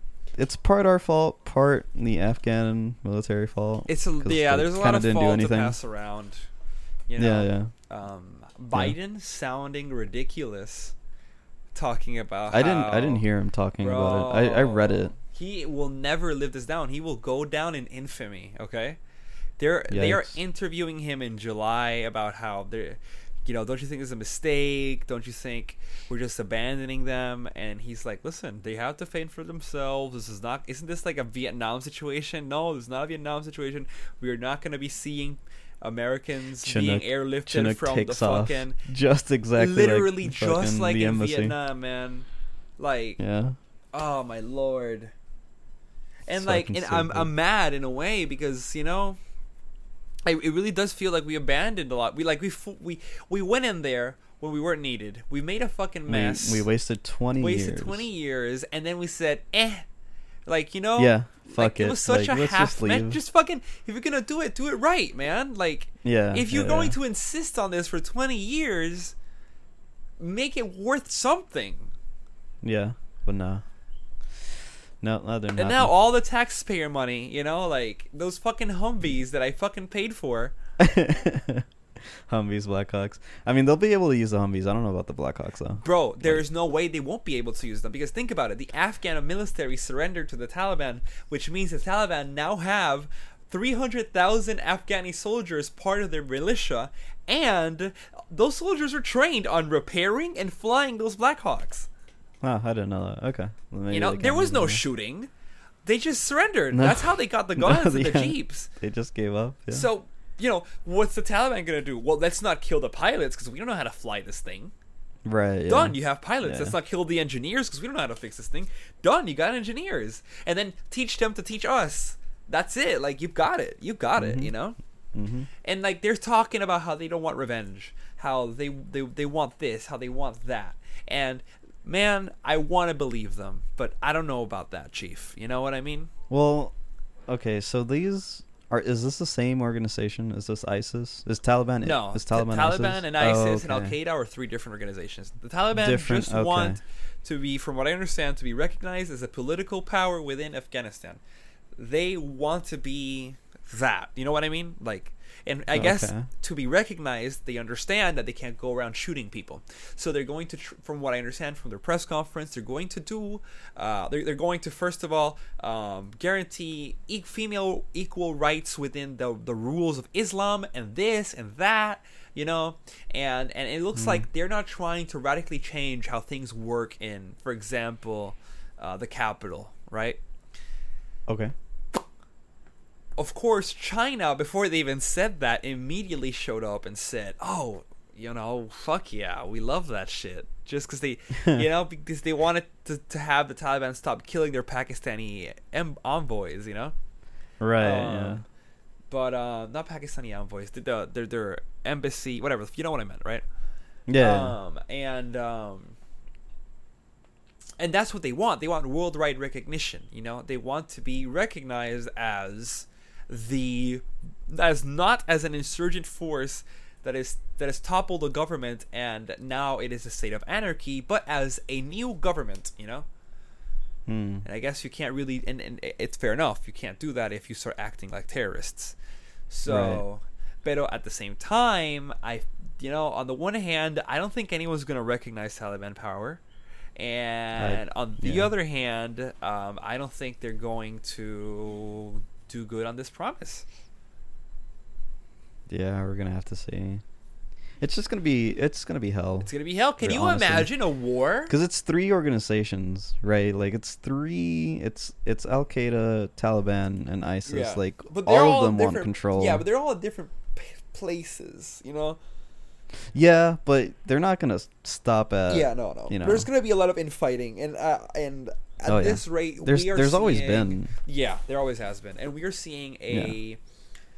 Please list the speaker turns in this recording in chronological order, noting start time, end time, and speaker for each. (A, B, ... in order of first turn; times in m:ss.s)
0:00.3-0:05.8 A
0:03.9-0:06.5 B
0:07.1-0:10.9 B
0:07.2-0:07.7 A
0:11.7-0:13.3 B
0:12.5-0:15.1 A
0:13.8-0:19.0 B
0:19.6-0:38.8 B
0:19.9-0:20.4 A
0:36.6-0:41.6 A
0:39.5-0:42.3 B
0:42.8-0:43.2 B
0:43.2-0:43.6 A
0:43.9-0:45.1 B
0:46.2-0:49.2 B
0:46.4-0:47.3 A
0:50.2-0:56.7 B
0:56.1-0:58.1 A
0:57.4-0:59.8 B
1:00.4-1:09.1 B
1:01.0-1:03.2 A
1:06.0-1:07.0 A
1:10.2-1:11.9 B
1:12.6-1:13.6 A
1:15.0-1:15.9 A
1:15.6-1:20.5 B
1:20.8-1:26.4 A
1:25.8-1:41.9 B
1:42.4-1:44.8 A
1:43.9-1:45.3 B
1:45.8-1:48.7 B
1:46.7-1:49.9 A
1:49.7-1:54.7 B
1:55.2-1:56.8 A
1:55.7-2:04.8 B
2:04.2-2:04.5 A
2:05.1-2:05.5 A
2:05.6-2:16.1 B
2:16.3-2:16.7 A
2:17.3-2:24.0 A
2:21.8-2:31.2 B
2:25.7-2:26.8 A
2:31.8-3:00.2 B
2:35.7-2:36.3 A
2:54.0-2:54.2 A
3:01.3-3:01.5 A
3:03.2-3:16.9 B
3:17.6-3:18.4 A
3:17.8-3:18.4 B
3:19.1-3:23.4 B
3:24.1-3:24.6 A
3:24.2-3:26.0 B
3:27.8-3:43.0 B
3:44.1-3:44.4 A
3:44.4-3:48.9 B
3:49.5-3:56.4 B
3:49.6-3:50.0 A
3:57.0-4:03.6 B
3:57.6-3:58.5 A
4:05.7-4:07.0 A
4:07.8-4:10.8 A
4:09.4-4:11.5 B
4:11.5-4:19.6 A
4:17.4-4:22.2 B
4:23.1-4:26.5 A
4:25.5-4:33.6 B
4:28.8-4:30.9 A
4:33.1-4:33.4 A